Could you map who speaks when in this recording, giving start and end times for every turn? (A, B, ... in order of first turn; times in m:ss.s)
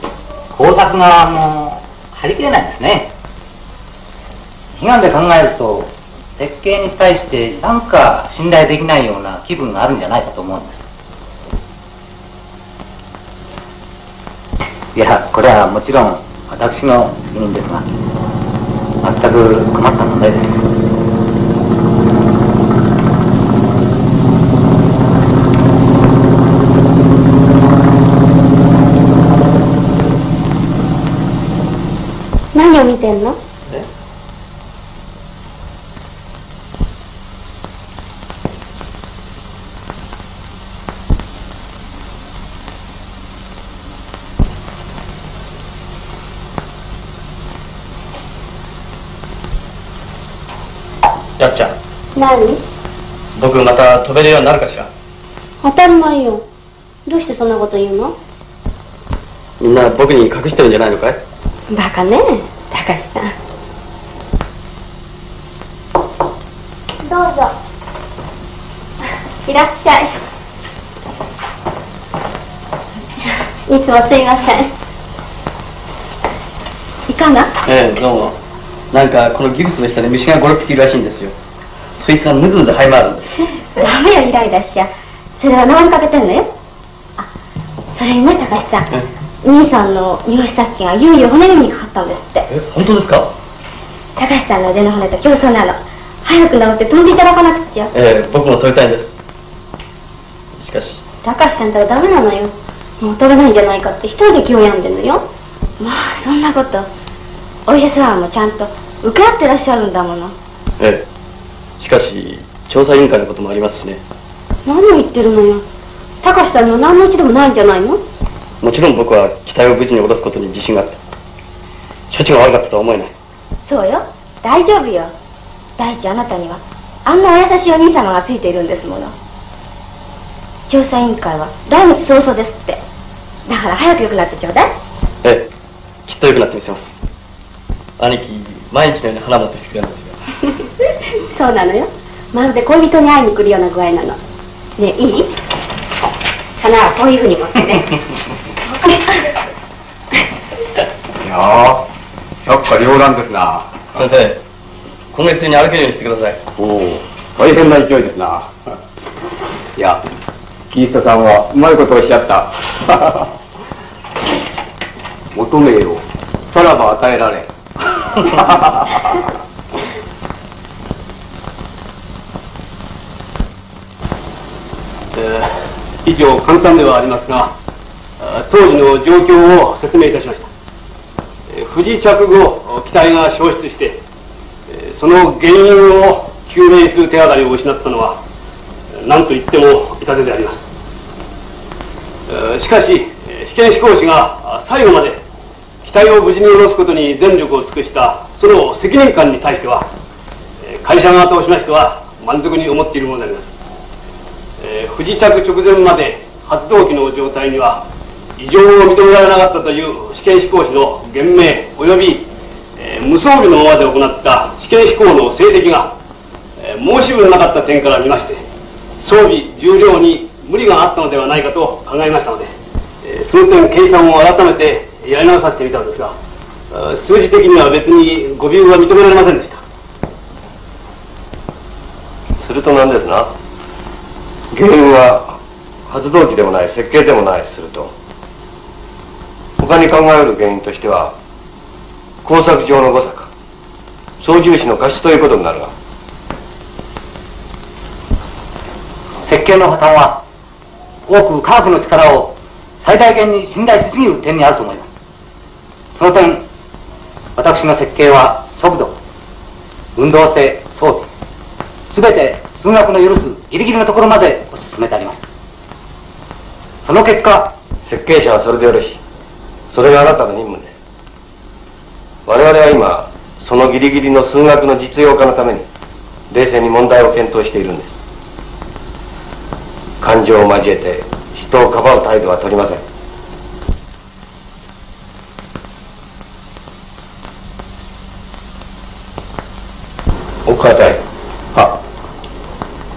0:00.5-0:03.1 A
0:04.8-0:10.9 A
0:14.9-0:17.9 A
0:19.0-0:20.6 A
0:32.5-0:33.4 B
0:51.4-0:51.8 C
0:52.1-0:52.6 B
0:53.4-0:54.9 C
0:55.6-0:56.4 B
0:57.0-0:58.2 B
0:59.6-1:01.2 C
1:01.7-1:03.3 B
1:07.0-1:07.5 B
1:09.4-1:10.2 B
1:13.6-1:14.7 B
1:17.1-1:17.5 B
1:17.6-1:18.4 C
1:18.9-1:21.4 C
1:21.9-1:23.4 C
1:23.6-1:26.5 B
1:27.9-1:28.9 B
1:29.4-1:32.5 B
1:32.5-1:33.3 C
1:34.2-1:37.9 B
1:37.9-1:39.2 C
1:40.6-1:41.0 C
1:41.2-1:45.3 B
1:45.8-1:46.9 B
1:47.6-1:50.4 B
1:50.8-1:51.0 C
1:51.8-1:54.0 C
1:54.6-1:55.6 B
1:56.2-1:58.0 B
1:58.6-2:01.0 C
2:02.1-2:03.1 C
2:03.6-2:05.1 B
2:05.8-2:09.1 B
2:10.7-2:12.8 B
2:13.4-2:14.7 B
2:16.0-2:17.0 C
2:18.0-2:20.2 C
2:21.2-2:24.2 B
2:24.8-2:25.3 B
2:26.6-2:28.0 B
2:28.6-2:29.3 B
2:31.2-2:31.8 D
2:32.4-2:33.7 D
2:33.9-2:34.4 C
2:35.1-2:36.4 C
2:36.6-2:38.5 D
2:40.7-2:43.2 D
2:45.3-2:46.0 D
2:55.1-2:57.5 E
2:58.2-3:00.5 E
3:01.5-3:04.0 E
3:04.7-3:08.2 E
3:08.9-3:10.7 E
3:12.3-3:15.2 E
3:15.8-3:19.9 E
3:20.6-3:23.5 E
3:24.6-3:35.9 E
3:36.6-3:38.4 E
3:39.0-3:46.2 E
3:46.7-3:49.6 E
3:52.4-3:53.3 F
3:54.5-3:57.9 F
3:59.6-4:01.1 F
4:02.2-4:03.3 F
4:04.2-4:05.7 F
4:09.1-4:10.2 A
4:11.1-4:15.0 A
4:15.9-4:16.4 A
4:17.4-4:19.0 A
4:19.9-4:21.1 A
4:21.9-4:25.2 A
4:26.8-4:27.5 A
4:27.8-4:29.0 F
4:29.7-4:30.8 F
4:32.2-4:35.6 F
4:36.3-4:37.9 F
4:40.0-4:42.8 F
4:50.4-4:51.0 F